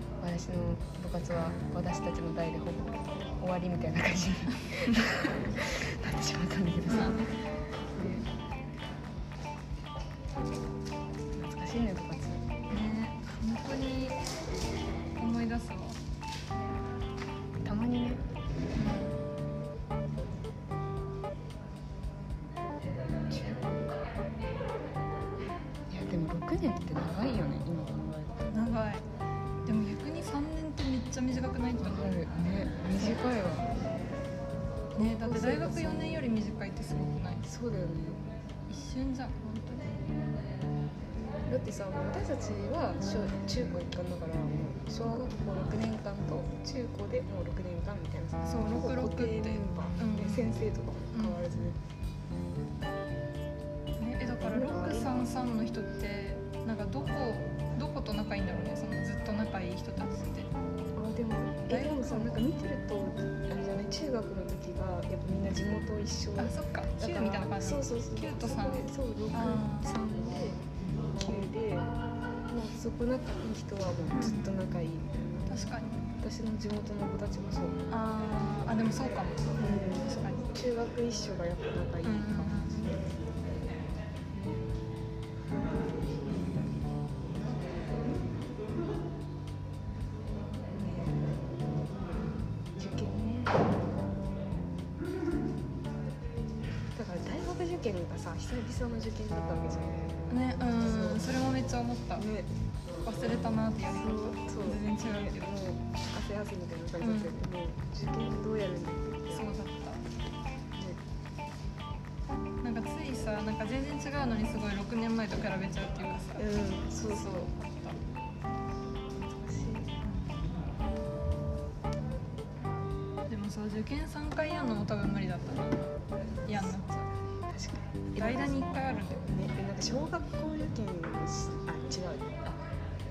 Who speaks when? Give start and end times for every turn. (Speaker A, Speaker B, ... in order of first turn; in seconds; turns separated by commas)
Speaker A: 0.2-7.3, Speaker B: 6.9-7.3, Speaker A: 7.9-8.3, Speaker A: 11.3-12.5, Speaker B: 12.7-14.2, Speaker B: 15.2-16.0, Speaker A: 17.6-18.2, Speaker B: 18.8-19.2, Speaker A: 23.3-24.0, Speaker A: 25.9-28.5, Speaker B: 28.5-29.1, Speaker B: 29.6-32.2, Speaker A: 31.8-33.7, Speaker B: 35.0-37.5, Speaker A: 35.0-36.3, Speaker A: 37.4-38.2, Speaker B: 38.7-40.0, Speaker A: 41.5-51.8, Speaker B: 48.4-50.5, Speaker B: 51.1-51.4, Speaker B: 54.0-60.5, Speaker A: 54.4-55.2, Speaker A: 61.0-70.6, Speaker B: 61.7-62.4, Speaker B: 66.4-69.9, Speaker A: 71.1-71.9, Speaker A: 72.5-75.4, Speaker B: 74.1-74.6, Speaker B: 75.5-76.0, Speaker A: 76.2-77.8, Speaker B: 77.9-80.5, Speaker A: 79.6-82.8, Speaker B: 82.0-82.9, Speaker A: 84.3-84.6, Speaker A: 90.7-91.2, Speaker A: 92.7-93.7, Speaker A: 97.0-101.3, Speaker B: 100.3-102.2, Speaker A: 102.2-102.5, Speaker B: 103.0-105.5, Speaker A: 103.9-109.5, Speaker B: 107.0-107.3, Speaker B: 109.3-110.0, Speaker B: 112.6-116.5, Speaker A: 116.4-117.5, Speaker B: 117.1-118.0, Speaker A: 119.2-119.9, Speaker B: 120.0-120.3, Speaker B: 123.3-125.8, Speaker B: 126.5-127.1, Speaker A: 127.5-132.6, Speaker B: 128.2-129.2